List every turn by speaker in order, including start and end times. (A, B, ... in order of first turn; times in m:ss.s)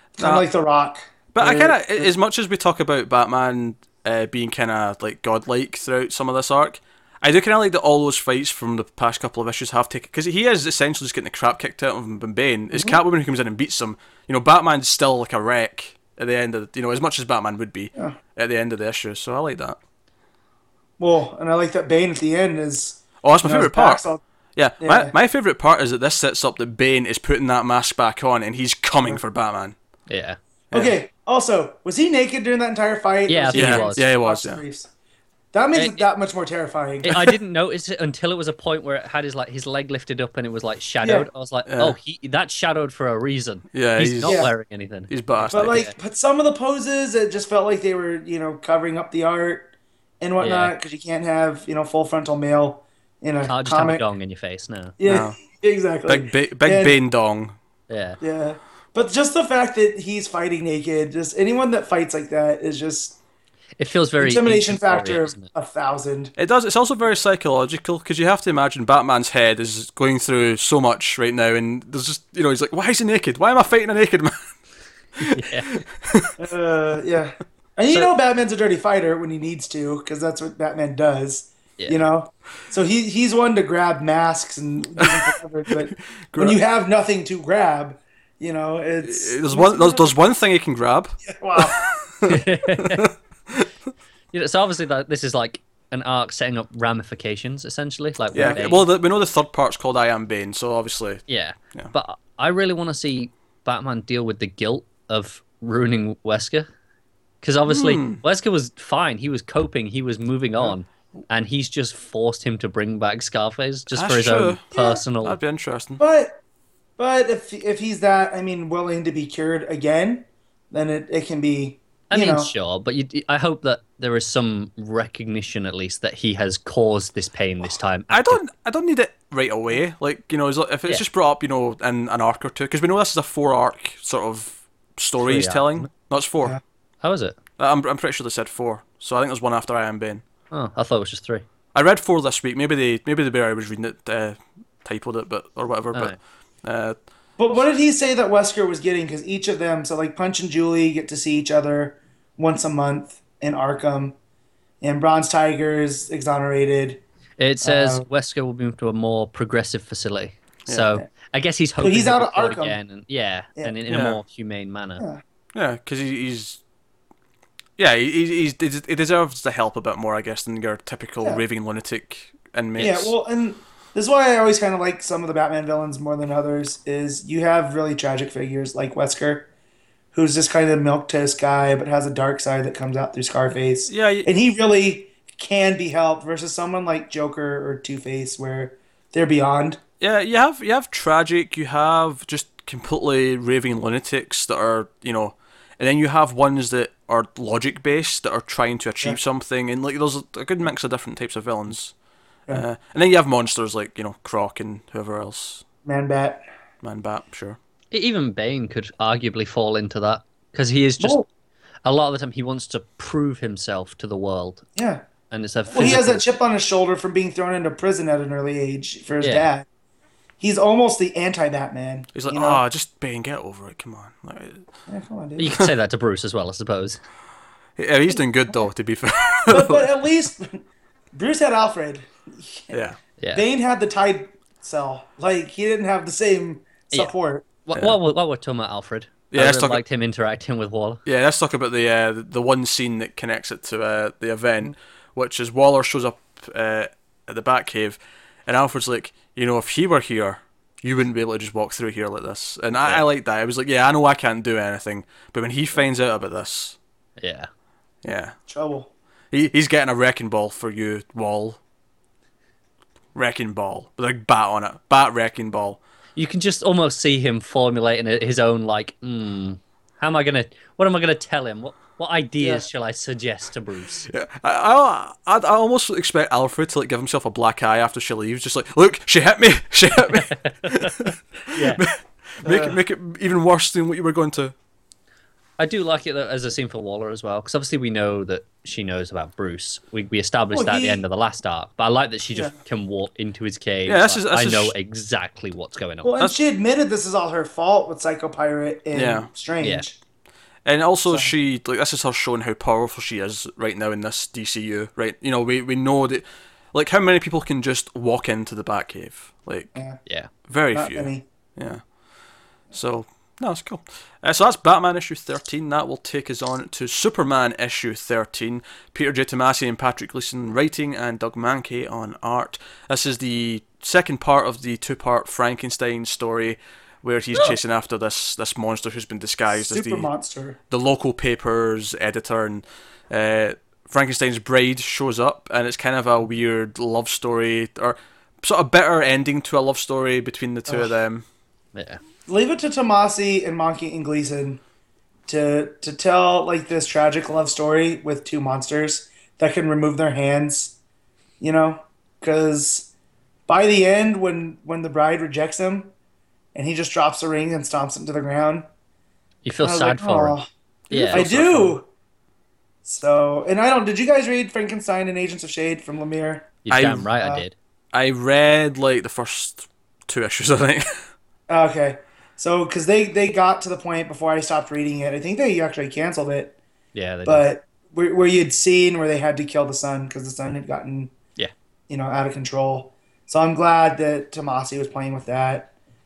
0:00.2-0:00.4 A
0:00.2-0:02.1 B
0:01.3-0:19.8 A
0:12.7-0:13.0 B
0:21.0-0:24.2 B
0:23.2-0:24.0 A
0:24.6-0:29.8 A
0:24.8-0:25.1 B
0:30.1-0:30.4 C
0:30.7-0:31.0 A
0:30.7-0:34.9 B
0:33.3-0:34.0 C
0:33.5-0:34.6 A
0:35.5-0:37.1 B
0:35.7-0:36.0 C
0:37.0-0:45.9 C
0:41.0-0:41.3 B
0:41.7-0:42.0 A
0:43.7-0:44.5 A
0:44.2-0:44.5 B
0:45.1-0:45.9 A
0:45.5-0:54.0 B
0:50.4-0:50.7 C
0:53.4-0:55.0 C
0:55.0-0:57.0 B
0:55.0-0:55.4 A
0:56.1-0:57.6 A
0:57.9-0:58.2 C
0:58.2-1:03.2 B
1:03.8-1:05.5 C
1:04.2-1:06.3 B
1:06.4-1:14.4 A
1:15.2-1:16.3 A
1:15.3-1:15.8 C
1:16.4-1:30.1 B
1:21.8-1:22.1 C
1:25.0-1:26.6 A
1:29.0-1:33.7 A
1:31.2-1:31.8 B
1:32.2-1:33.0 C
1:34.3-1:38.8 C
1:38.3-1:41.2 A
1:38.4-1:38.7 B
1:41.3-1:46.7 C
1:47.4-1:55.4 C
1:47.7-1:48.2 A
1:53.9-1:54.6 A
1:54.7-1:55.0 B
1:55.2-1:56.0 A
1:56.0-1:56.4 B
1:57.0-2:02.5 B
2:02.1-2:08.4 C
2:08.1-2:16.6 A
2:15.2-2:15.9 C
2:17.0-2:17.4 C
2:17.6-2:20.2 A
2:20.5-2:21.4 C
2:21.7-2:27.0 A
2:27.4-2:34.1 B
2:34.8-2:37.0 B
2:37.4-2:45.0 C
2:37.6-2:38.1 B
2:41.8-2:42.8 B
2:43.9-2:44.2 A
2:45.6-2:46.6 A
2:47.8-2:53.1 A
2:52.8-2:59.5 B
3:00.1-3:09.8 B
3:03.9-3:04.3 A
3:10.0-3:21.9 A
3:22.5-3:25.6 A
3:25.8-3:26.4 B
3:26.8-3:27.6 A
3:27.9-3:31.2 C
3:31.0-3:31.3 B
3:31.8-3:34.7 C
3:34.8-3:35.0 B
3:35.3-3:36.2 C
3:35.7-3:39.6 B
3:39.2-3:39.5 C
3:40.4-3:42.6 B
3:42.1-3:44.6 A
3:44.9-3:45.5 B
3:45.4-3:47.0 C
3:47.8-3:49.9 A
3:49.5-3:57.5 B
3:52.7-3:53.0 A
3:53.2-3:53.4 C
3:57.6-4:01.0 C
3:59.3-3:59.8 A
4:01.0-4:16.8 A
4:17.2-4:17.5 C
4:18.0-4:18.4 A
4:18.5-4:18.9 B
4:19.3-4:21.6 A
4:23.1-4:25.8 A
4:26.2-4:34.1 C
4:34.1-4:44.5 A
4:40.1-4:41.8 C
4:42.4-4:42.8 B
4:45.6-4:56.2 C
4:50.5-4:51.0 B
4:53.9-4:54.7 A
4:56.0-5:00.0 B
4:58.9-4:59.3 A
5:00.6-5:09.8 A
5:09.7-5:10.0 B
5:10.4-5:11.8 A
5:10.7-5:11.2 B
5:12.7-5:30.1 A
5:29.5-5:30.6 B
5:30.7-5:41.2 A
5:40.7-5:40.9 B
5:41.7-5:42.0 C
5:42.3-5:44.6 B
5:45.3-5:50.8 B
5:51.4-5:52.9 B
5:53.5-5:55.9 B
5:56.5-5:58.6 B
5:59.4-6:00.4 C
5:59.6-6:00.5 B
6:00.9-6:01.2 C
6:00.9-6:01.8 A
6:01.1-6:01.9 B
6:02.8-6:06.5 B
6:06.6-6:07.5 C
6:06.7-6:07.1 A
6:07.9-6:11.0 A
6:11.5-6:16.6 B
6:16.9-6:17.4 C
6:17.2-6:21.1 B
6:21.9-6:25.7 B